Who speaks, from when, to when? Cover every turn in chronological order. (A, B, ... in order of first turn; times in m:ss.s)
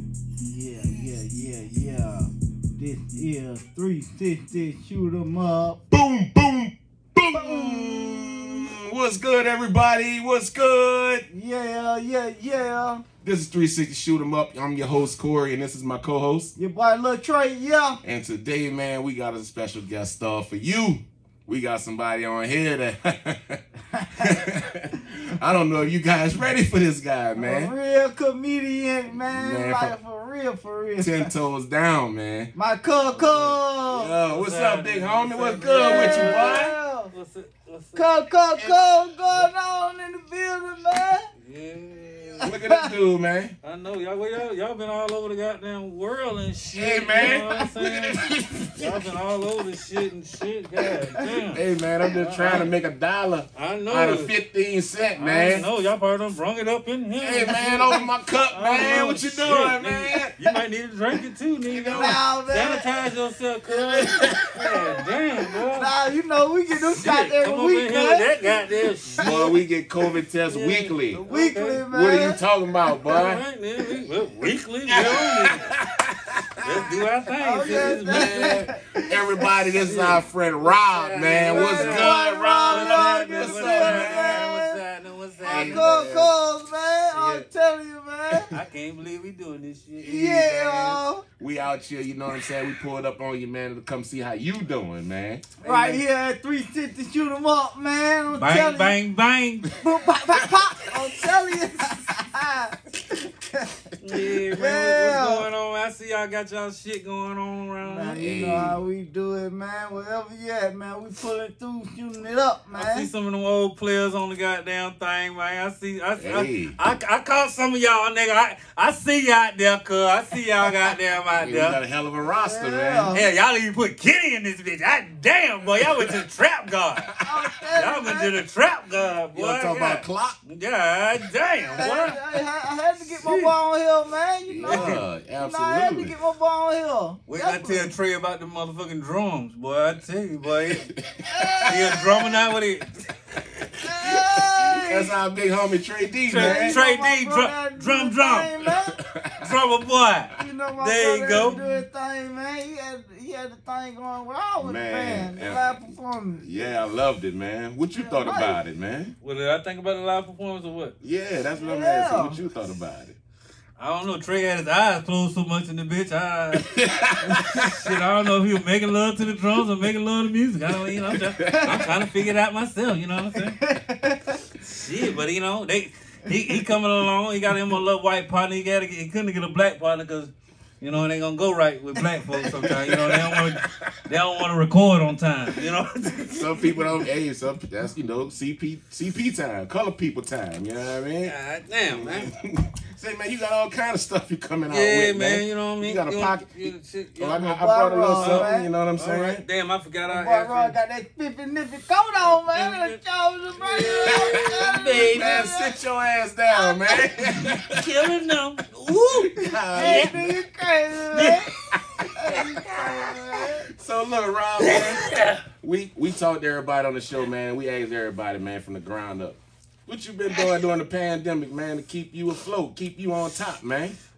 0:00.4-0:05.8 A
0:05.9-0:11.3 B
0:07.3-0:08.7 A
0:11.3-0:13.0 A
0:13.2-0:16.5 B
0:16.6-0:18.0 A
0:18.0-0:23.6 B
0:23.9-0:24.4 A
0:24.2-0:27.7 B
0:27.3-0:31.3 A
0:29.1-0:29.9 B
0:31.0-0:32.5 B
0:32.5-0:34.1 A
0:33.1-0:33.6 C
0:33.9-0:36.7 B
0:34.2-0:38.0 C
0:35.7-0:37.1 A
0:38.0-0:41.3 A
0:38.5-0:38.8 B
0:41.4-0:42.5 C
0:42.4-0:42.9 A
0:42.4-0:43.6 B
0:43.6-0:52.7 C
0:46.7-0:49.1 B
0:51.1-0:51.4 A
0:51.5-0:55.7 B
0:53.5-0:54.3 C
0:55.2-1:05.9 C
0:57.2-1:00.3 B
0:57.5-0:58.0 A
1:01.7-1:02.2 B
1:01.9-1:03.1 A
1:03.6-1:04.5 A
1:04.0-1:04.6 B
1:05.7-1:09.6 A
1:06.8-1:09.3 C
1:09.2-1:11.2 B
1:10.5-1:11.8 C
1:11.3-1:12.4 A
1:11.9-1:13.4 B
1:13.0-1:15.7 C
1:14.9-1:16.8 B
1:16.6-1:18.6 C
1:17.4-1:19.6 A
1:17.6-1:24.5 B
1:19.8-1:26.0 C
1:21.5-1:24.8 A
1:25.4-1:26.3 B
1:25.4-1:28.5 A
1:27.1-1:27.5 C
1:28.5-1:31.0 C
1:30.0-1:31.2 A
1:31.4-1:35.4 B
1:35.6-1:36.0 C
1:35.6-1:39.0 A
1:38.4-1:39.7 C
1:39.7-1:45.5 A
1:40.9-1:41.2 B
1:44.0-1:48.2 C
1:47.8-1:53.1 A
1:48.2-1:48.8 B
1:52.7-2:01.8 C
1:56.2-1:56.8 B
2:01.3-2:03.1 B
2:02.2-2:03.3 A
2:03.1-2:07.1 C
2:05.7-2:06.2 B
2:07.1-2:07.7 B
2:07.2-2:08.3 A
2:07.7-2:12.2 C
2:09.3-2:10.4 B
2:11.7-2:17.9 A
2:13.0-2:13.6 C
2:14.5-2:16.1 B
2:14.6-2:15.0 C
2:17.3-2:20.9 C
2:20.7-2:21.9 B
2:21.2-2:22.5 A
2:21.6-2:23.1 C
2:23.7-2:26.8 B
2:23.8-2:25.1 A
2:26.2-2:28.5 C
2:26.3-2:29.0 A
2:28.6-2:29.5 B
2:29.4-2:31.6 C
2:30.3-2:36.5 A
2:31.3-2:31.8 B
2:34.6-2:35.8 B
2:36.4-2:39.1 B
2:37.9-2:38.6 A
2:39.2-2:41.0 C
2:41.0-2:43.2 B
2:41.5-2:42.4 A
2:43.8-2:53.6 C
2:46.5-2:48.0 B
2:50.8-2:51.9 B
2:51.5-2:51.7 A
2:53.4-2:54.4 A
2:54.6-3:06.9 C
3:02.4-3:04.0 B
3:06.3-3:11.3 B
3:11.2-3:12.3 C
3:11.9-3:19.4 B
3:14.7-3:17.6 C
3:17.5-3:18.7 A
3:18.2-3:20.8 C
3:20.1-3:25.8 A
3:22.3-3:23.0 C
3:23.5-3:25.4 C
3:23.8-3:27.9 B
3:26.5-3:27.3 A
3:27.7-3:30.3 C
3:29.2-3:30.3 B
3:29.4-3:31.5 A
3:31.1-3:31.5 C
3:31.7-3:32.6 B
3:32.1-3:33.7 A
3:33.4-3:44.0 B
3:34.6-3:35.4 C